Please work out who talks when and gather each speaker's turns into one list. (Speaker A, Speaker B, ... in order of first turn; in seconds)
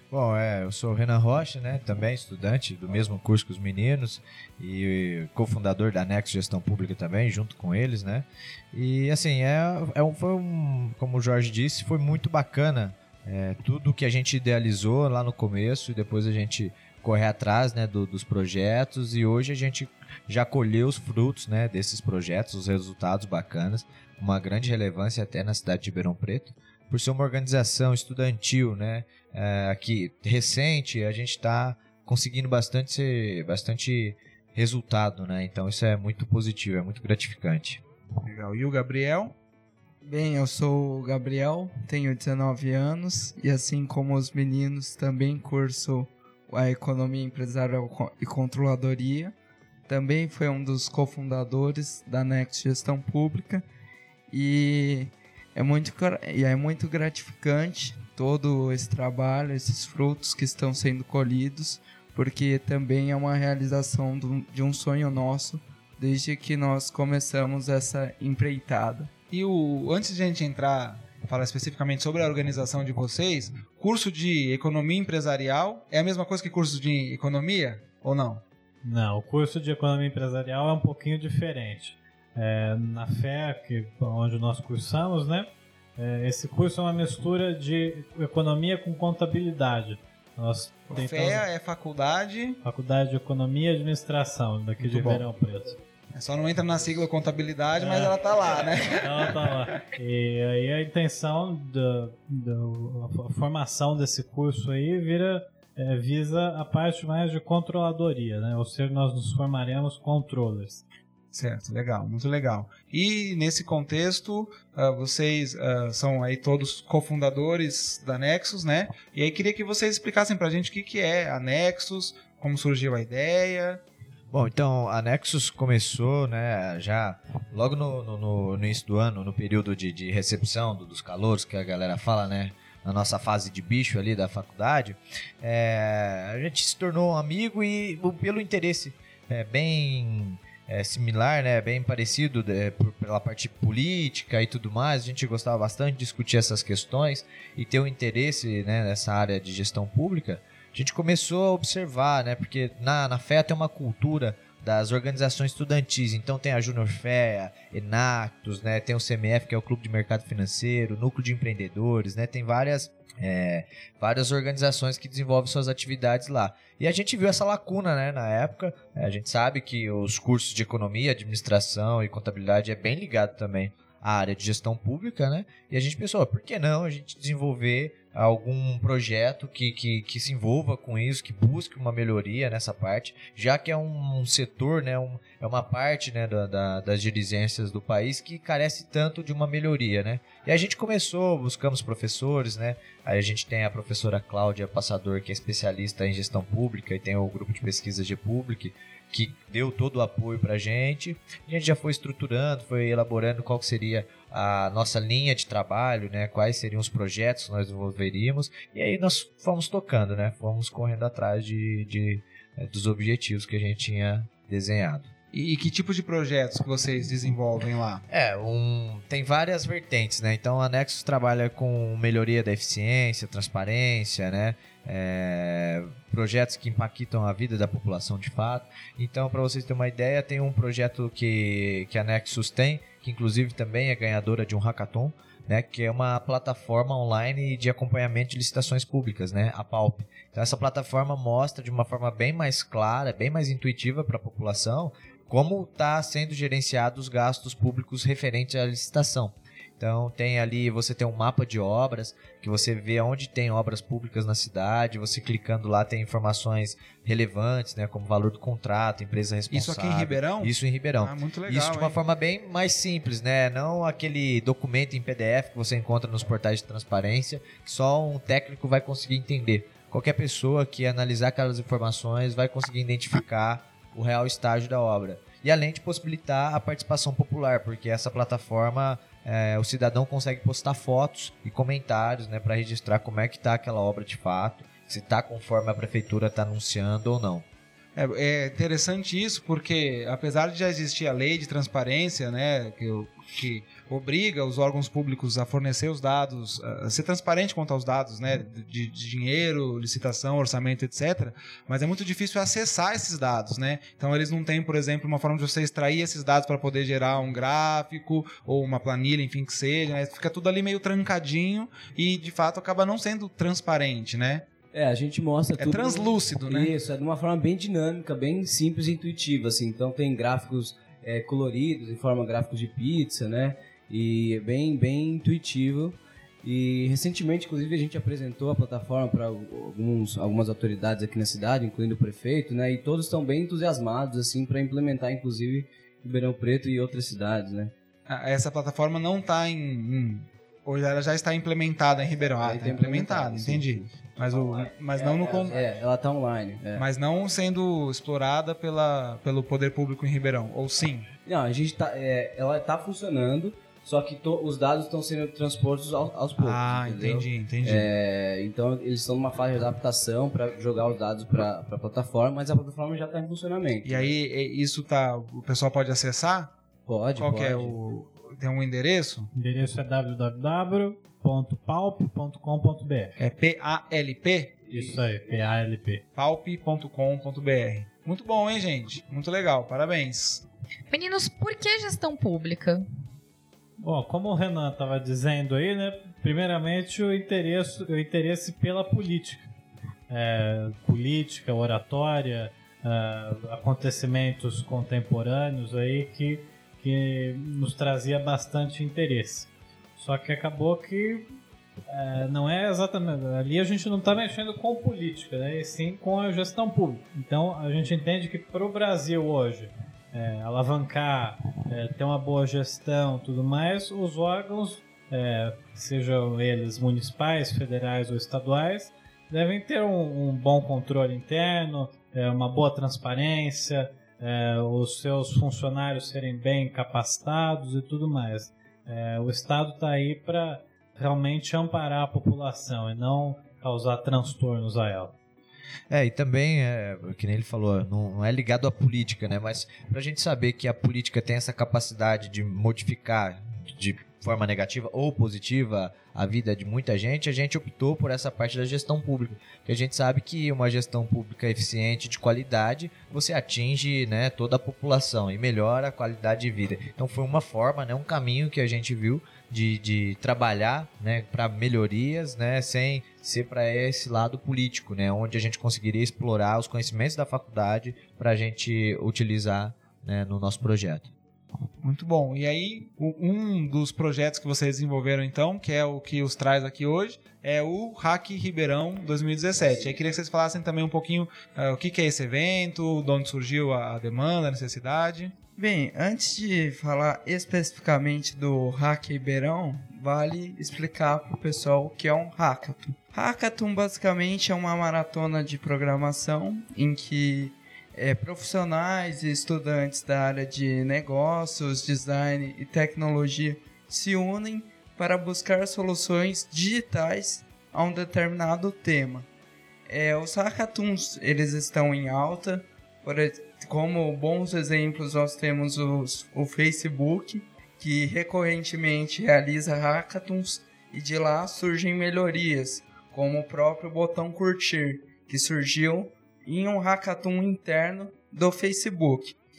Speaker A: 0.1-37.8, 124.3-215.1, 218.1-287.4, 435.9-471.1
Speaker B: 38.2-39.3, 69.3-78.4, 90.9-92.6, 94.8-95.2, 96.1-99.5, 111.3-123.8, 215.3-218.0, 259.5-262.0, 287.9-314.4, 315.6-316.7, 338.1-345.6, 346.8-351.1, 356.4-357.9, 363.8-366.5, 367.1-369.3, 373.2-374.6, 376.1-380.4, 471.8-485.3
Speaker C: 40.0-49.3, 49.9-53.6, 54.3-69.1, 485.6-509.3, 509.9-529.4
Speaker D: 78.8-91.4, 92.6-95.7, 97.8-98.1, 99.0-110.8, 369.3-373.2, 374.7-376.0, 383.8-389.5, 390.1-401.2, 401.9-435.1
Speaker E: 314.7-337.7, 342.4-343.9, 344.9-346.8, 351.2-364.1, 366.9-367.8
Speaker F: 380.9-382.8